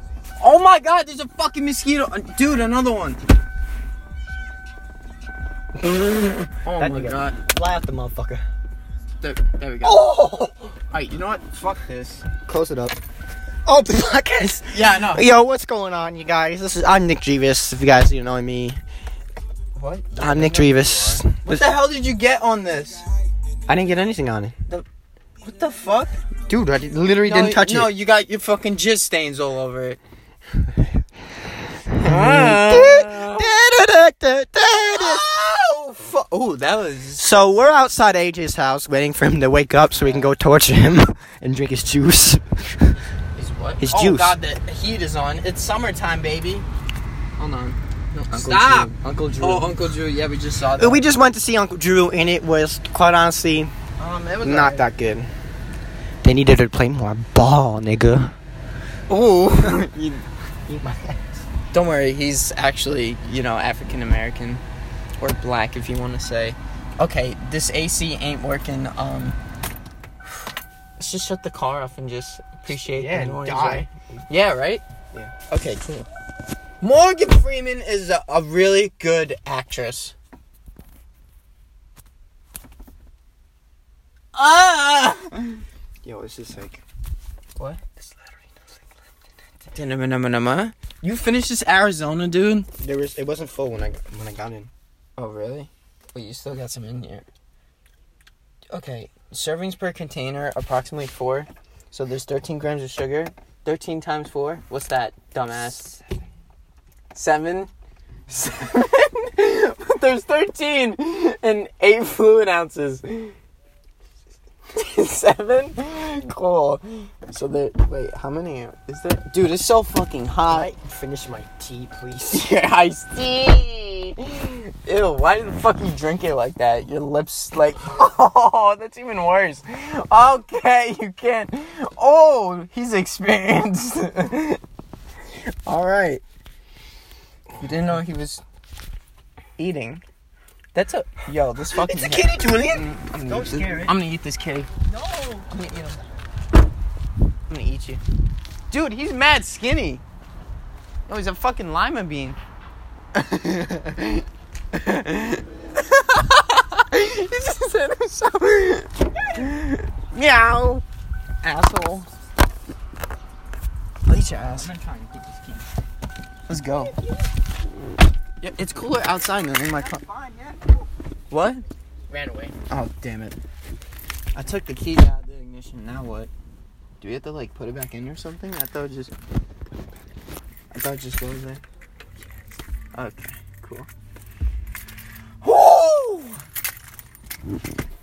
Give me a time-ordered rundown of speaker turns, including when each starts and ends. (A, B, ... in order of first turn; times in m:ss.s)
0:00.4-0:03.2 A
0:05.8-0:08.4 B
0:06.6-0:07.4 A
0:09.2-0:10.1 A
0:09.8-0:10.8 B
0:10.9-0:12.2 A
0:12.4-0:13.0 B
0:13.6-0:18.8 B
0:14.7-0:15.3 A
0:19.8-0:23.1 A
0:20.2-0:21.7 B
0:23.7-0:24.6 B
0:25.4-0:26.2 A
0:26.5-0:27.9 B
0:27.2-0:30.0 A
0:32.0-0:35.2 B
0:32.0-0:33.5 A
0:34.9-0:37.4 A
0:37.2-0:43.0 B
0:40.0-0:40.4 A
0:43.4-0:46.7 A
0:43.8-0:44.4 B
0:47.4-0:47.8 A
0:48.2-0:49.8 B
0:48.3-0:51.1 A
0:50.8-0:53.7 B
0:54.0-0:54.9 A
0:54.4-0:55.3 B
0:56.2-0:58.4 B
0:59.1-1:00.3 A
1:00.7-1:01.5 B
1:01.7-1:04.6 A
1:05.2-1:09.4 A
1:11.0-1:14.8 A
1:12.8-1:14.3 B
1:15.5-1:16.1 A
1:16.8-1:20.1 A
1:24.3-1:25.5 A
1:26.0-1:26.8 B
1:27.6-1:28.0 A
1:29.7-1:32.7 A
1:32.8-1:34.7 B
1:35.2-1:37.3 A
1:38.7-1:45.8 A
1:45.5-1:46.2 B
1:47.1-1:47.7 A
1:48.3-1:53.4 A
1:54.7-2:00.7 A
2:00.4-2:02.5 B
2:02.3-2:14.6 A
2:15.4-2:16.2 A
2:17.6-2:18.4 A
2:19.6-2:20.0 A
2:20.7-2:24.7 A
2:21.7-2:24.0 B
2:24.8-2:25.5 B
2:25.5-2:26.0 A
2:27.5-2:28.0 A
2:28.7-2:30.0 A
2:31.1-2:32.4 A
2:33.1-2:40.8 A
2:41.4-2:42.1 A
2:44.1-2:44.7 A
2:44.4-2:45.7 B
2:46.5-2:46.9 A
2:48.4-2:50.0 A
2:48.8-2:50.9 B
2:51.3-2:51.6 A
2:52.1-2:52.5 B
2:52.7-2:53.4 A
2:54.4-2:56.3 A
2:57.0-2:59.1 A
3:00.7-3:01.6 A
3:02.9-3:03.9 A
3:05.4-3:06.4 A